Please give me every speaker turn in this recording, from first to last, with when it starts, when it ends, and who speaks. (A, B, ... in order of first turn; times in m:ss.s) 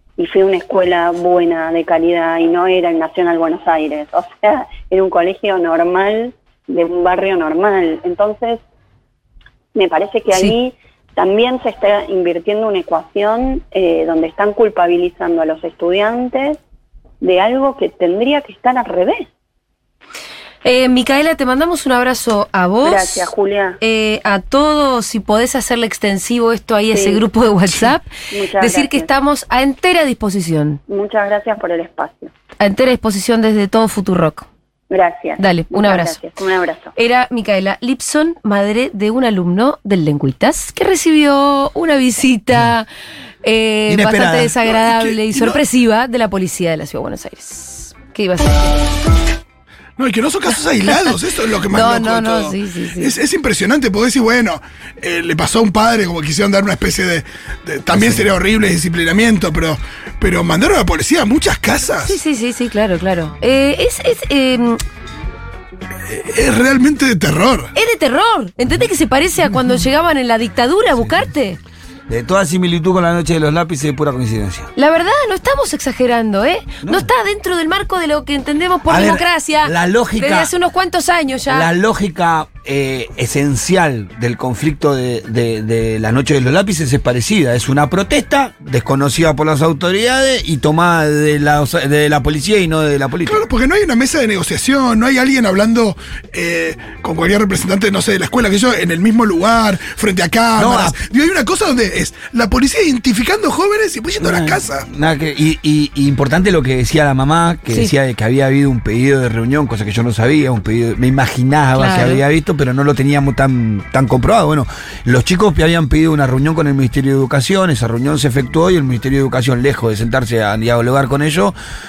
0:00.2-0:08.6 A
0:09.7-0:16.6 A
0:17.2-0:19.3 A
0:20.6-0:30.8 B
0:22.8-0:23.8 A
0:26.9-0:27.2 A
0:28.3-0:29.1 A
0:30.9-0:32.3 A
0:32.6-0:34.4 B
0:34.9-0:36.9 A
0:35.4-0:36.2 B
0:36.9-0:42.9 B
0:43.4-0:48.9 B
0:43.9-0:44.6 C
0:44.6-0:45.6 D
0:50.0-1:02.2 D
0:50.8-0:51.1 B
0:51.6-0:53.2 B
0:57.9-0:58.3 C
1:02.0-1:04.8 B
1:06.0-1:07.7 D
1:07.7-1:11.6 B
1:12.1-1:14.7 C
1:14.8-1:21.7 B
1:16.8-1:17.1 C
1:18.9-1:20.5 C
1:21.5-1:33.4 C
1:33.2-1:44.9 D
1:40.6-1:41.0 C
1:44.2-2:01.5 C
1:51.7-1:52.2 B